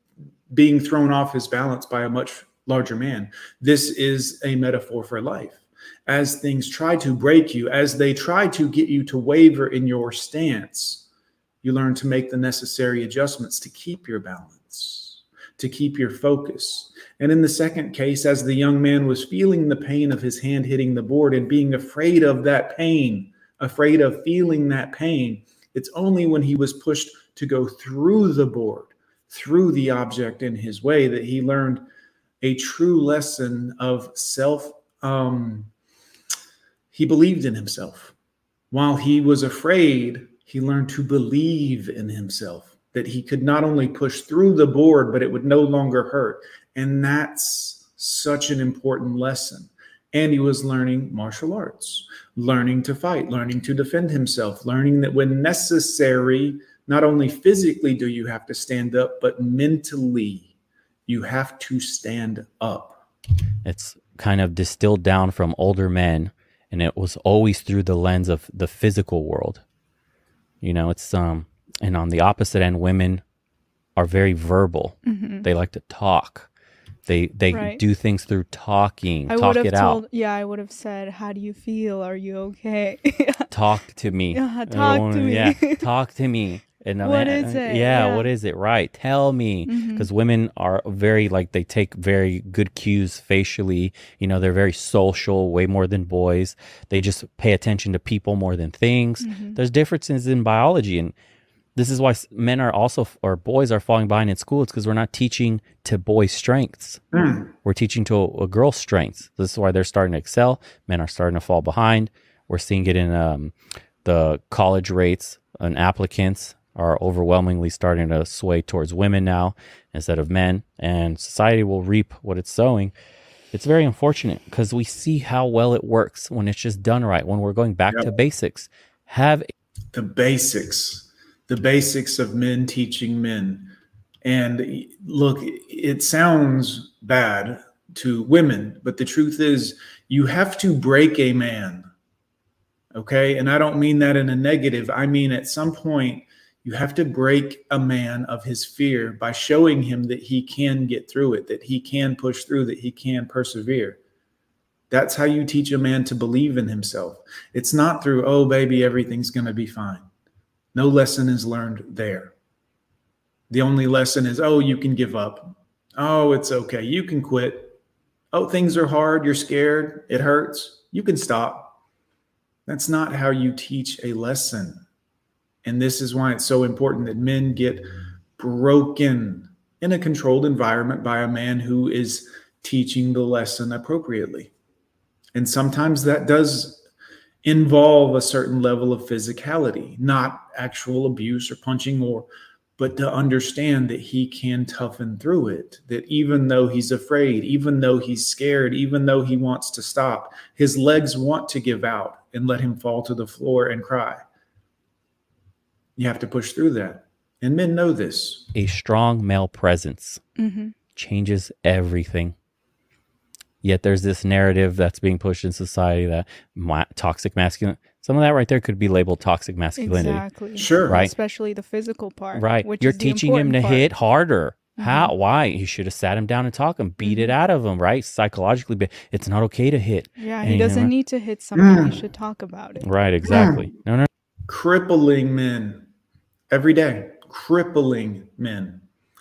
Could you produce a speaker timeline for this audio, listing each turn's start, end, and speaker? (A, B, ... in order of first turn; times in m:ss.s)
0:00.5-0:11.1 A
0:11.6-0:31.8 A
0:32.4-0:35.7 A
0:36.9-0:38.1 A
0:38.7-1:00.5 A
1:01.1-1:03.0 A
1:03.6-1:09.6 B
1:10.6-1:13.2 B
1:14.0-1:16.5 B
1:15.0-1:15.5 C
1:17.1-1:20.0 B
1:17.5-1:17.8 C
1:19.3-1:23.5 C
1:23.5-1:41.1 B
1:24.3-1:25.9 C
1:27.0-1:28.3 C
1:29.7-1:30.1 C
1:39.2-1:39.6 C
1:41.8-2:02.9 B
1:47.1-1:47.5 A
2:03.5-2:09.5 B
2:09.9-2:13.7 A
2:14.2-2:21.9 A
2:22.9-2:34.0 A
2:34.9-2:40.1 A
2:40.7-2:42.3 A
2:43.5-2:47.8 A
2:48.3-2:51.8 A
2:52.7-2:54.8 A
2:55.6-3:04.5 A
3:05.3-3:06.8 A
3:07.4-3:24.2 A
3:26.0-3:28.5 A
3:28.6-3:30.2 B
3:30.4-3:30.7 C
3:30.9-3:32.4 B
3:33.6-3:40.2 B
3:39.8-3:43.9 C
3:40.6-3:41.0 A
3:40.9-3:41.1 B
3:42.3-3:50.9 B
3:44.8-3:45.1 C
3:47.0-3:47.3 C
3:50.2-3:52.8 C
3:51.6-3:52.0 A
3:52.8-3:54.1 B
3:53.2-3:53.7 A
3:54.5-3:55.9 A
3:56.5-3:58.8 A